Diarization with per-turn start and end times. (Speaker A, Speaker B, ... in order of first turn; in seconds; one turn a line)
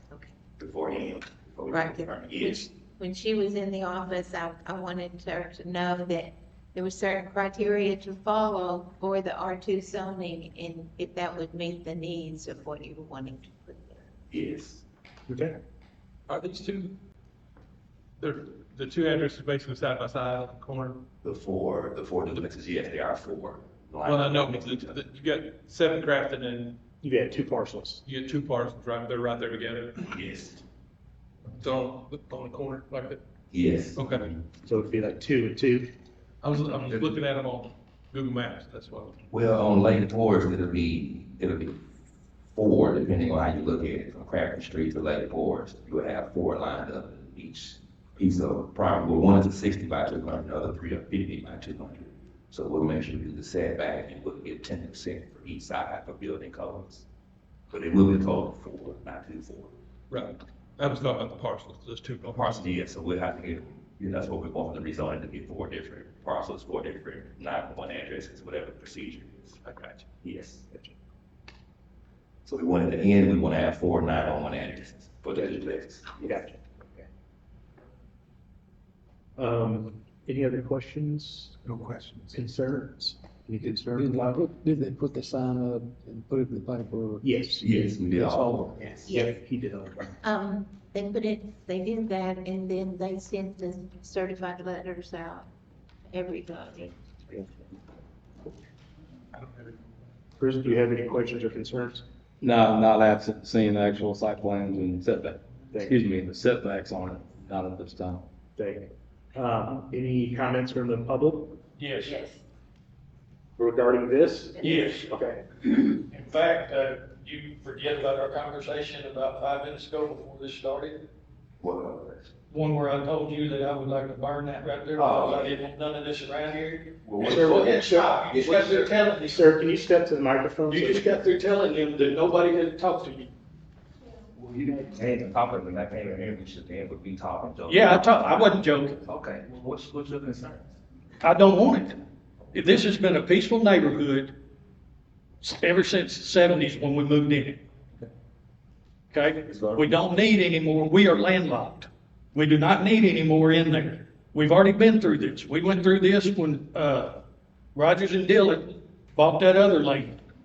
Speaker A: 0.6-2.7
Speaker B: 1.7-14.1
Speaker A: 14.3-14.8
Speaker C: 15.3-15.6
Speaker D: 16.3-17.0
Speaker D: 18.2-21.1
Speaker A: 21.2-25.0
Speaker D: 24.0-26.8
Speaker C: 27.0-28.0
Speaker D: 28.1-30.1
Speaker A: 30.1-30.6
Speaker D: 31.6-33.2
Speaker A: 33.5-34.4
Speaker D: 34.0-34.3
Speaker C: 34.6-35.9
Speaker D: 36.4-39.2
Speaker A: 39.3-41.8
Speaker A: 42.5-57.1
Speaker A: 57.7-59.7
Speaker D: 60.1-62.7
Speaker A: 62.3-69.6
Speaker D: 69.7-70.0
Speaker A: 70.2-70.8
Speaker A: 72.5-76.4
Speaker C: 76.2-77.1
Speaker C: 79.4-84.5
Speaker E: 83.9-87.3
Speaker C: 87.2-87.7
Speaker A: 87.6-88.7
Speaker C: 88.2-90.1
Speaker B: 89.1-89.4
Speaker B: 90.2-95.5
Speaker B: 96.1-97.4
Speaker D: 99.4-99.7
Speaker C: 100.4-102.0
Speaker F: 102.4-108.3
Speaker C: 108.6-111.6
Speaker G: 111.8-112.3
Speaker B: 112.0-112.4
Speaker C: 113.6-115.4
Speaker B: 114.6-114.9
Speaker G: 114.6-115.1
Speaker G: 115.7-121.0
Speaker A: 121.6-122.3
Speaker G: 122.5-129.5
Speaker A: 125.0-125.5
Speaker A: 127.0-127.7
Speaker C: 127.2-128.2
Speaker A: 128.3-128.8
Speaker C: 129.2-131.1
Speaker G: 130.7-133.3
Speaker A: 134.3-140.8
Speaker G: 137.7-139.0
Speaker G: 141.2-142.0
Speaker G: 142.5-144.3
Speaker G: 145.4-147.6
Speaker G: 149.1-157.2
Speaker A: 149.5-150.0
Speaker G: 157.8-160.2